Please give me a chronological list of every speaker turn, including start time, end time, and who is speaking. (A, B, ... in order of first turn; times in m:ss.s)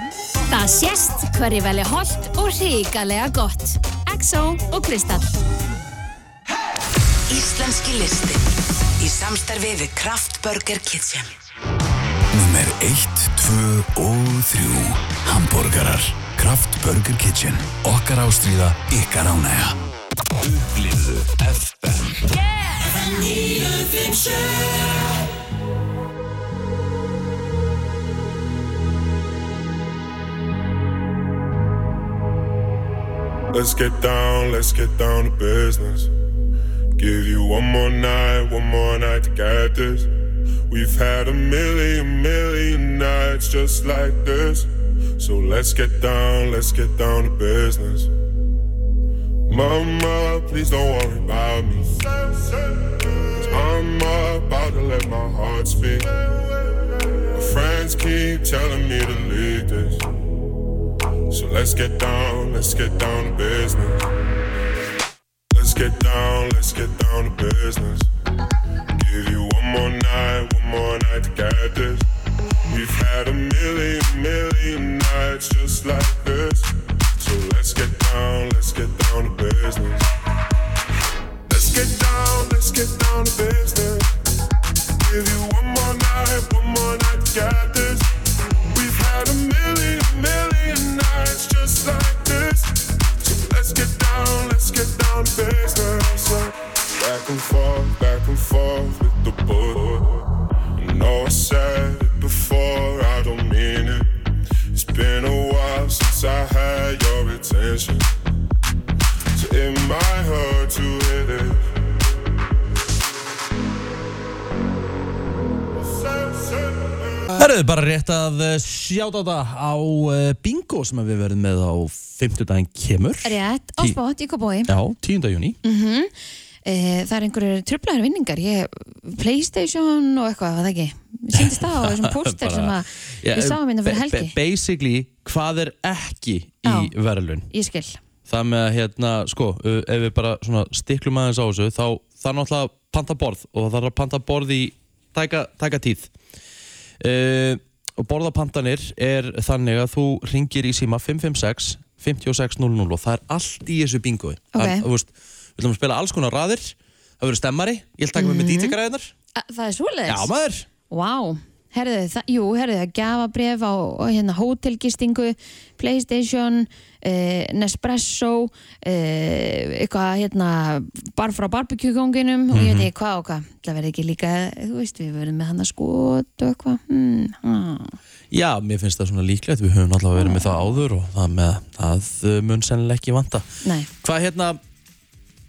0:00.5-0:05.3 A
0:07.3-0:08.4 B
0:09.0-0:11.3 B
0:12.3-0:19.8 C
0:20.4-0:22.1 C
0:33.5-0:36.1 D
0:37.0-0:40.1 D
0:40.7-0:48.1 D
0:49.5-0:56.5 D
0:57.3-1:00.0 D
1:01.3-1:04.0 D
1:05.5-1:08.1 D
1:09.0-1:12.0 D
1:12.7-1:20.1 D
1:21.5-1:24.1 D
1:25.0-1:28.1 D
1:28.7-1:44.1 D
1:44.7-1:48.1 D
1:49.3-1:51.6 D
1:55.8-1:57.3 D
1:57.3-2:04.0 E
2:03.2-2:04.7 F
2:04.7-2:05.6 E
2:05.6-2:06.1 F
2:06.6-2:14.3 F
2:11.3-2:17.5 E
2:16.6-2:16.9 F
2:17.5-2:18.0 F
2:18.3-2:26.1 E
2:27.0-2:39.1 E
2:34.5-2:34.8 F
2:38.2-2:38.8 F
2:39.3-2:40.3 F
2:40.1-2:40.7 E
2:40.9-2:58.0 F
2:52.5-2:52.9 E
2:58.3-3:03.5 E
3:00.2-3:00.8 F
3:03.6-3:03.9 F
3:04.0-3:04.6 E